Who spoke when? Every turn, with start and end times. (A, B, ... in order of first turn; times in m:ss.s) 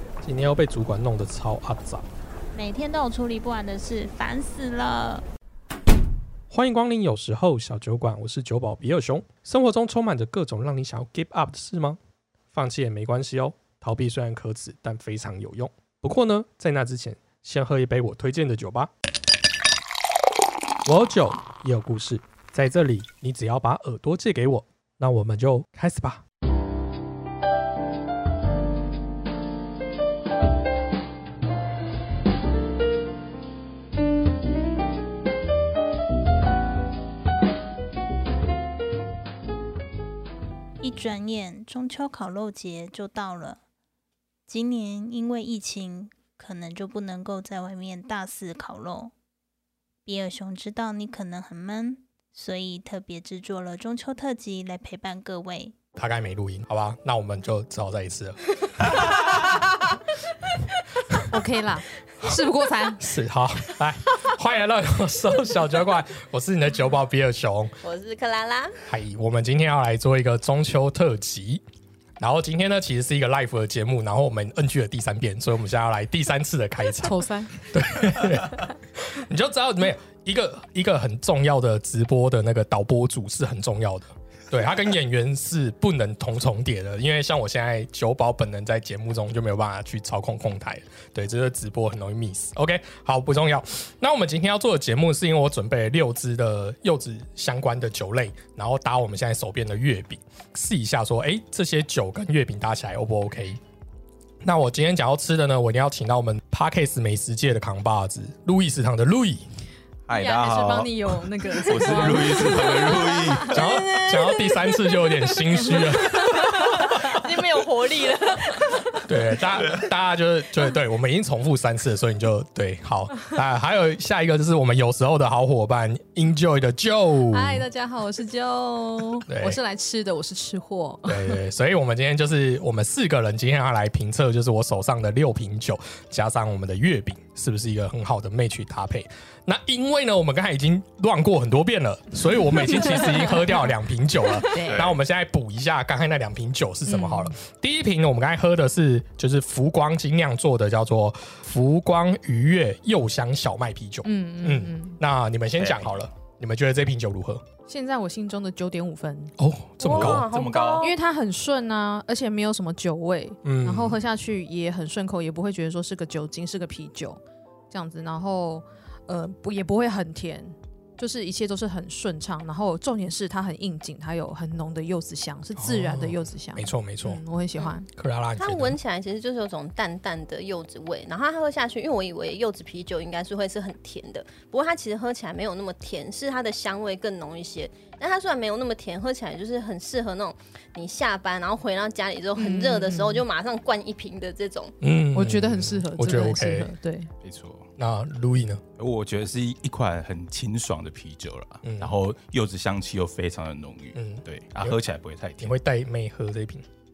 0:00.2-0:02.1 A
0:02.6-0:05.2 B
0:06.5-0:12.0 A
0:12.5-0:18.9 A
0:20.8-0:26.2 A
0:40.8-0:43.6 B
0:44.5-0:49.1 B
0:50.1-0:55.8 B
0:56.0-0:59.2 A
1:01.2-1:03.1 C
1:03.0-1:07.7 A
1:07.8-1:08.8 D
1:08.9-1:11.6 A
1:12.2-1:43.6 A
1:17.0-1:17.6 C
1:44.4-1:49.4 A
1:50.1-1:53.9 E
1:50.1-1:53.6 C
1:52.3-1:55.0 D
1:53.5-1:56.7 A
1:55.6-1:57.1 C
1:55.8-1:59.0 D
1:59.0-2:07.7 A
2:07.3-2:11.4 C
2:09.3-2:09.6 A
2:11.1-2:37.4 A
2:22.7-2:23.4 C
2:24.3-2:24.8 C
2:24.6-2:25.0 E
2:26.9-2:27.3 C
2:34.0-2:35.0 C
2:35.6-2:36.0 E
2:37.7-2:39.3 C
2:39.4-2:40.3 A
2:39.8-2:41.0 D
2:39.9-2:40.9 E
2:40.8-2:57.9 C
2:43.4-2:44.0 A
2:55.6-2:57.2 A
2:58.0-2:58.8 A
2:58.4-3:14.8 D
3:12.4-3:13.2 C
3:14.8-3:16.7 A
3:15.1-3:17.1 C
3:17.2-3:17.7 E
3:17.8-3:18.6 A
3:18.8-3:25.5 E
3:21.6-3:22.0 A
3:24.0-3:24.8 A
3:25.4-3:26.7 A